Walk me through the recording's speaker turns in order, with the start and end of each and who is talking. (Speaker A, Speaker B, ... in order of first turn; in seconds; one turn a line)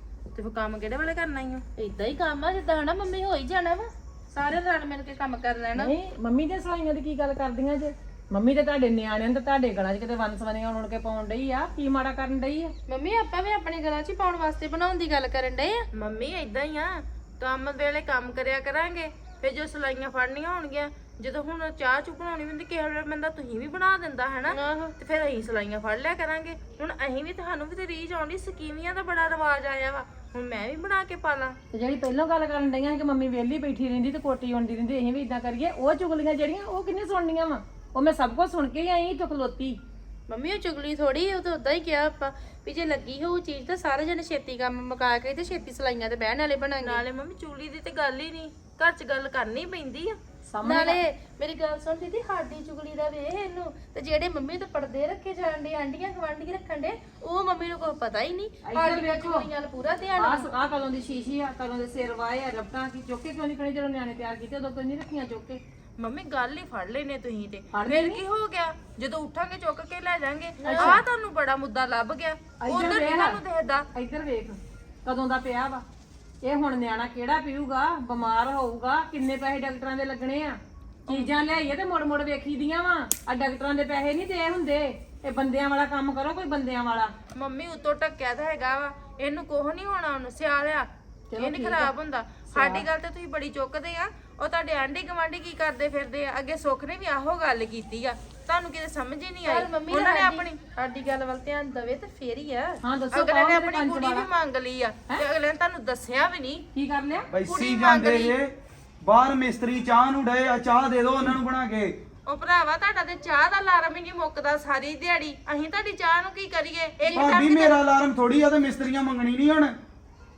Speaker A: 0.3-1.8
Speaker B: 1.8-4.6
Speaker A: 4.4-5.5
Speaker B: 5.5-5.9
Speaker C: 5.8-12.7
Speaker B: 12.9-15.9
Speaker A: 15.9-31.6
Speaker B: 24.5-24.9
Speaker C: 31.7-39.8
Speaker B: 40.3-47.0
Speaker A: 46.8-50.2
Speaker C: 50.5-51.0
Speaker B: 50.6-60.5
Speaker C: 58.6-59.5
Speaker C: 60.2-65.6
Speaker A: 66.0-73.9
Speaker C: 67.7-68.2
Speaker C: 70.6-71.0
Speaker C: 72.6-73.4
Speaker C: 73.9-75.8
Speaker C: 76.4-87.1
Speaker A: 87.4-100.6
Speaker C: 91.3-91.9
Speaker C: 92.5-92.9
Speaker B: 99.5-102.8
Speaker C: 102.8-104.3
Speaker A: 103.1-106.7
Speaker C: 106.7-107.3
Speaker D: 107.3-112.0
Speaker A: 107.5-108.4
Speaker A: 112.3-117.8
Speaker D: 117.1-119.8